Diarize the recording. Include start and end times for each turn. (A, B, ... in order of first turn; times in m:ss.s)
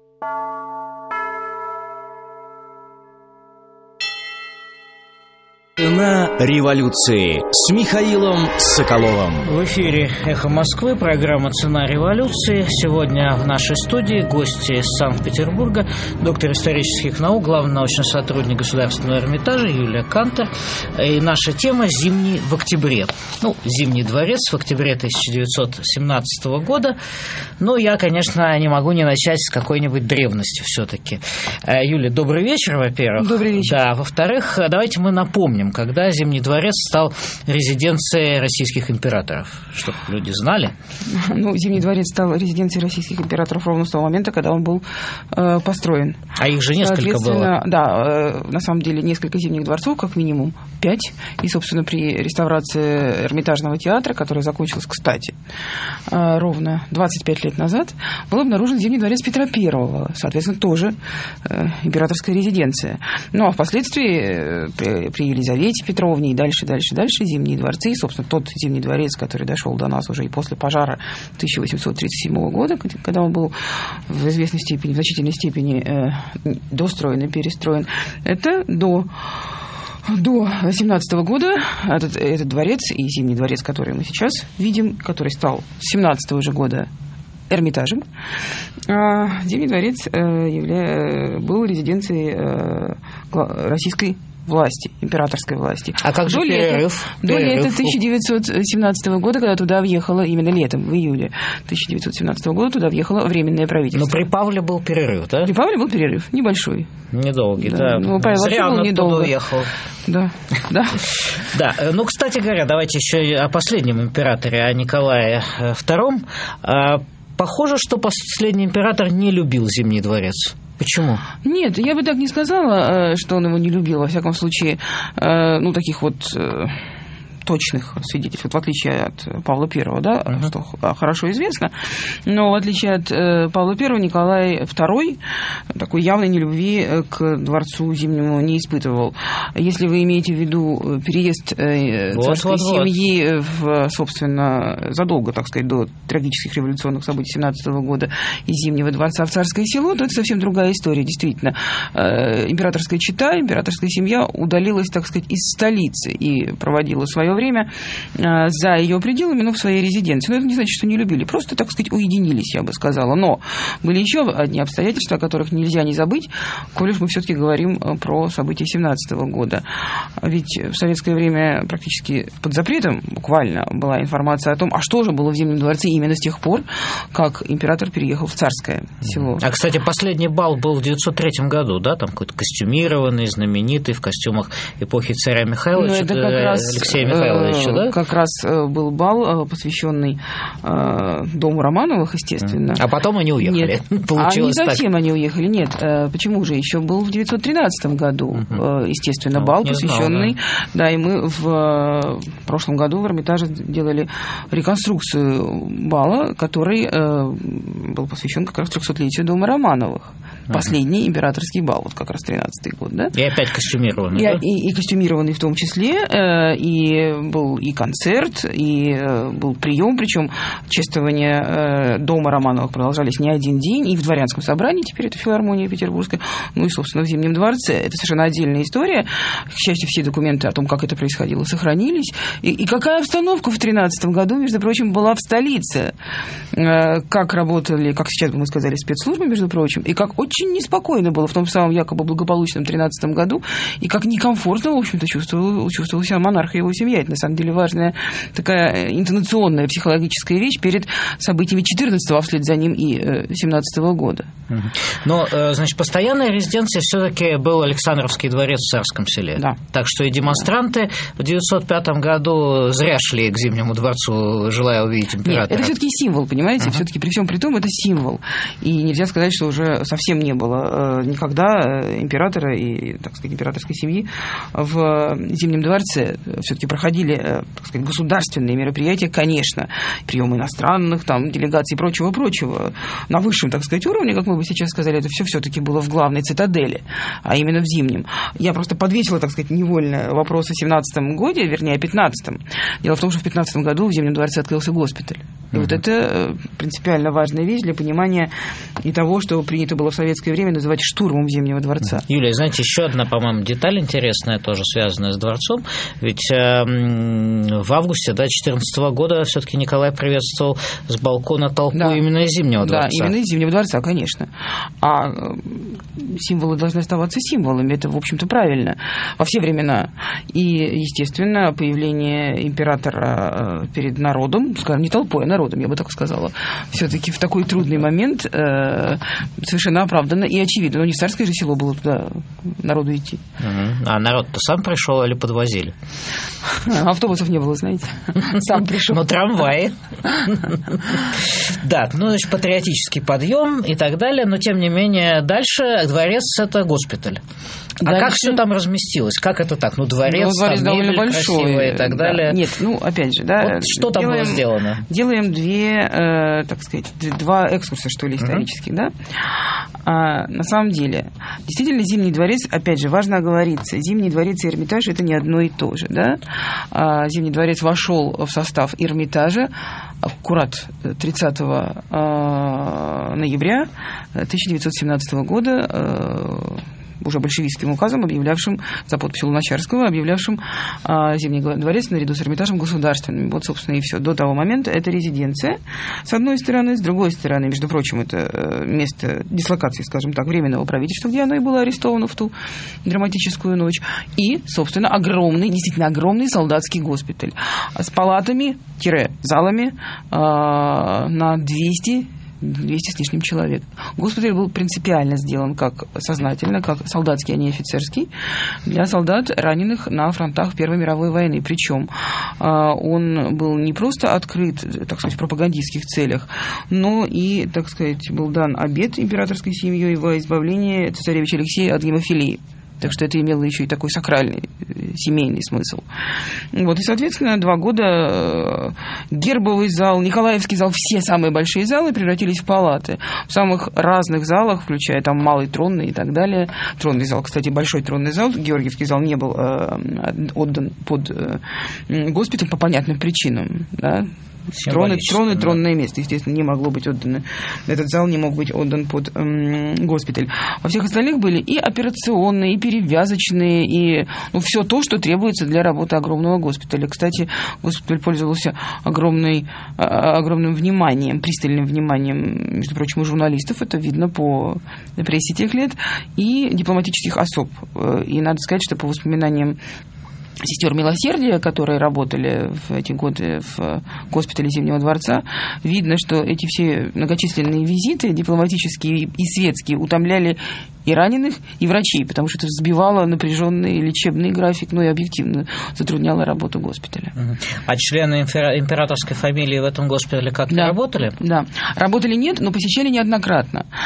0:05.8-0:09.4 A
0:09.4-0:27.0 B
0:27.6-0:40.7 B
0:33.2-0:33.8 C
0:41.1-0:46.2 C
0:46.4-0:47.5 B
0:46.8-0:55.3 C
0:56.1-1:13.5 C
1:14.1-1:19.1 C
1:20.0-1:26.9 C
1:27.5-1:28.0 C
1:28.9-1:44.2 C
1:36.0-1:38.0 B
1:43.9-1:45.5 B
1:45.4-1:46.9 C
1:47.1-1:49.7 B
1:47.6-1:49.3 C
1:50.1-1:51.0 C
1:51.4-2:01.2 B
2:01.4-2:06.8 C
2:07.4-2:11.7 C
2:12.2-2:15.2 C
2:15.7-2:49.6 C
2:22.1-2:22.9 B
2:50.2-2:59.4 C
2:59.0-3:08.0 B
3:05.8-3:12.8 C
3:12.4-3:14.8 B
3:13.4-3:33.1 C
3:18.4-3:18.6 B
3:19.3-3:20.3 B
3:33.1-3:34.4 B
3:34.1-3:55.9 C
3:56.5-4:14.3 C
4:14.5-4:25.7 B
4:25.2-4:58.3 C
4:55.5-4:55.8 B
4:58.8-5:02.0 C
5:02.0-5:13.1 B
5:11.7-5:12.0 C
5:12.6-5:14.3 C
5:14.8-5:33.2 C
5:33.4-5:35.8 B
5:36.5-5:39.0 C
5:38.5-5:47.2 B
5:47.8-5:52.4 B
5:47.8-5:48.4 C
5:50.0-6:06.2 C
5:53.4-5:54.8 B
5:58.2-5:58.4 B
6:06.7-6:09.5 C
6:10.0-6:32.3 C
6:32.8-6:48.1 C
6:48.6-7:05.8 C
7:06.5-7:24.1 C
7:24.5-7:25.6 B
7:24.6-7:49.6 C
7:50.4-8:07.1 C
8:07.1-8:11.1 B
8:10.5-8:13.6 C